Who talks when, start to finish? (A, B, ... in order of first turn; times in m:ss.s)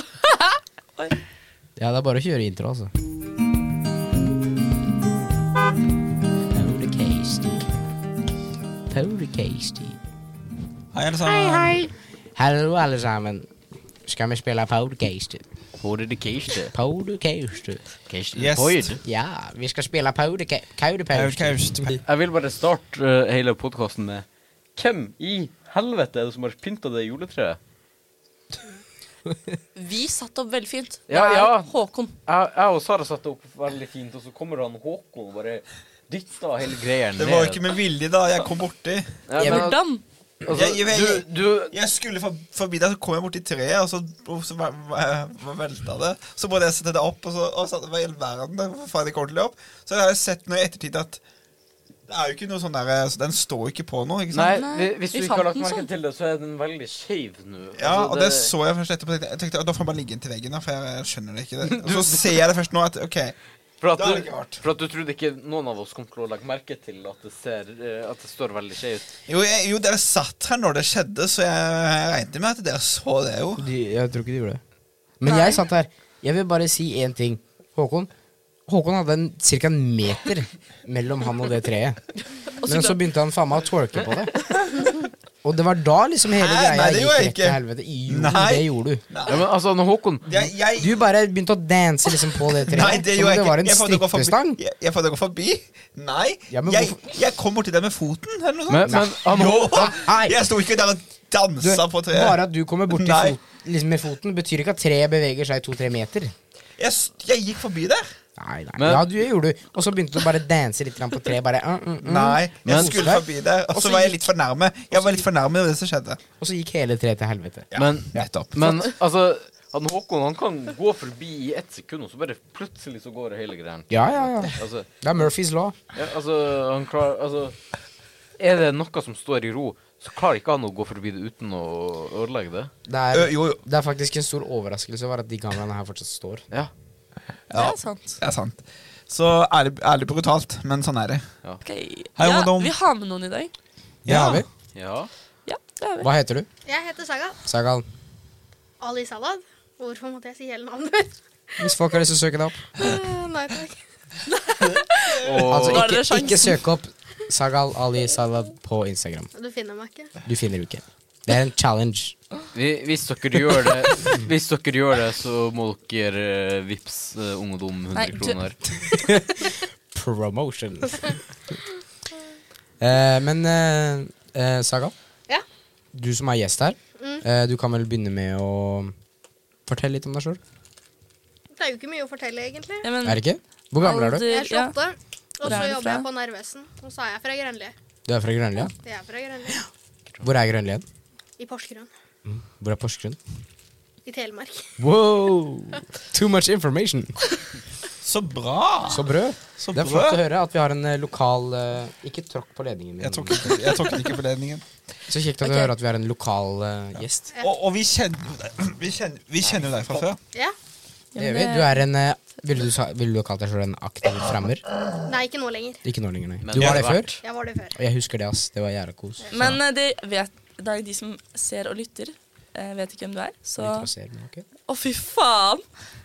0:00.2-0:01.2 A
0:01.8-0:02.9 B
0:06.5-0:07.7 B
0:08.9-0:10.0 B
0:10.9-0:11.8 C
0:11.2-0:11.9 D
0:12.4-0:13.5 B
0:14.0-0:15.4 B
0:15.8-0:16.8 E
0:16.7-0:17.8 B
0:18.1-0:19.0 E
0:18.4-0:18.8 C
0:19.0-0:22.0 B
0:21.1-0:22.0 C
0:22.0-0:27.6 E
0:29.8-0:32.2 A
0:31.1-0:31.7 E
0:32.2-0:37.6 E
0:37.2-0:39.2 C
0:39.3-0:39.8 E
0:39.4-0:39.7 B
0:39.4-0:40.0 A
0:40.4-0:41.8 E
0:40.5-0:51.2 C
0:52.1-0:54.6 C
0:54.3-0:58.5 E
0:54.6-0:55.9 A
0:57.8-1:03.4 C
1:01.6-1:02.5 E
1:03.8-1:09.1 E
1:04.0-1:04.6 C
1:09.3-1:13.7 C
1:13.6-1:14.6 B
1:15.2-1:18.1 B
1:15.2-1:15.6 A
1:18.7-1:22.0 B
1:22.6-1:23.0 A
1:22.7-1:29.0 B
1:26.3-1:29.5 C
1:29.3-1:30.3 E
1:30.3-1:30.9 C
1:30.8-1:34.6 B
1:32.6-1:42.4 C
1:36.5-1:37.0 B
1:38.7-1:39.9 E
1:38.9-1:40.4 B
1:41.6-1:46.3 B
1:42.9-1:43.4 C
1:46.8-1:48.1 C
1:48.4-1:54.2 B
1:48.8-1:49.1 E
1:52.0-1:56.2 C
1:52.6-1:53.0 E
1:55.0-1:55.2 B
1:56.4-1:57.7 B
1:57.7-1:58.8 C
1:57.8-2:04.9 E
2:03.9-2:05.8 B
2:05.9-2:07.6 E
2:08.4-2:12.7 E
2:12.9-2:16.5 B
2:13.1-2:13.6 C
2:17.5-2:21.3 C
2:17.5-2:18.2 A
2:21.6-2:23.5 A
2:22.2-2:22.7 C
2:24.0-2:24.5 B
2:24.1-2:24.4 C
2:24.7-2:25.1 E
2:25.5-2:26.1 A
2:26.0-2:26.5 B
2:26.6-2:27.4 D
2:27.4-2:27.9 B
2:28.8-2:31.7 D
2:31.6-2:32.7 B
2:32.8-2:33.8 D
2:34.6-2:36.6 A
2:35.2-2:35.9 E
2:35.4-2:39.3 B
2:39.4-2:40.2 D
2:40.2-2:42.2 B
2:42.5-2:48.6 E
2:48.0-2:49.1 A
2:48.9-2:51.2 B
2:52.8-2:54.9 B
2:55.9-2:59.0 B
2:57.0-2:57.2 D
2:59.7-3:00.4 B
3:01.5-3:02.9 D
3:02.8-3:03.2 A
3:03.0-3:04.3 B
3:03.8-3:04.8 A
3:04.2-3:07.7 D
3:05.4-3:06.1 A
3:08.1-3:08.7 B
3:08.8-3:09.6 D
3:10.2-3:10.8 B
3:11.4-3:11.9 D
3:12.2-3:13.2 B
3:14.0-3:14.7 D
3:14.8-3:17.2 B
3:18.0-3:19.0 C
3:18.9-3:23.6 B
3:19.6-3:20.2 C
3:23.0-3:24.6 C
3:25.1-3:27.3 B
3:25.4-3:25.7 A
3:27.4-3:30.2 C
3:31.2-3:31.8 A
3:31.2-3:34.7 B
3:35.1-3:35.8 D
3:35.8-3:37.2 B
3:36.4-3:37.2 E
3:36.6-3:37.0 C
3:37.2-3:37.8 D
3:37.7-3:39.6 B
3:39.3-3:43.9 A
3:43.6-3:44.4 B
3:44.7-3:45.6 A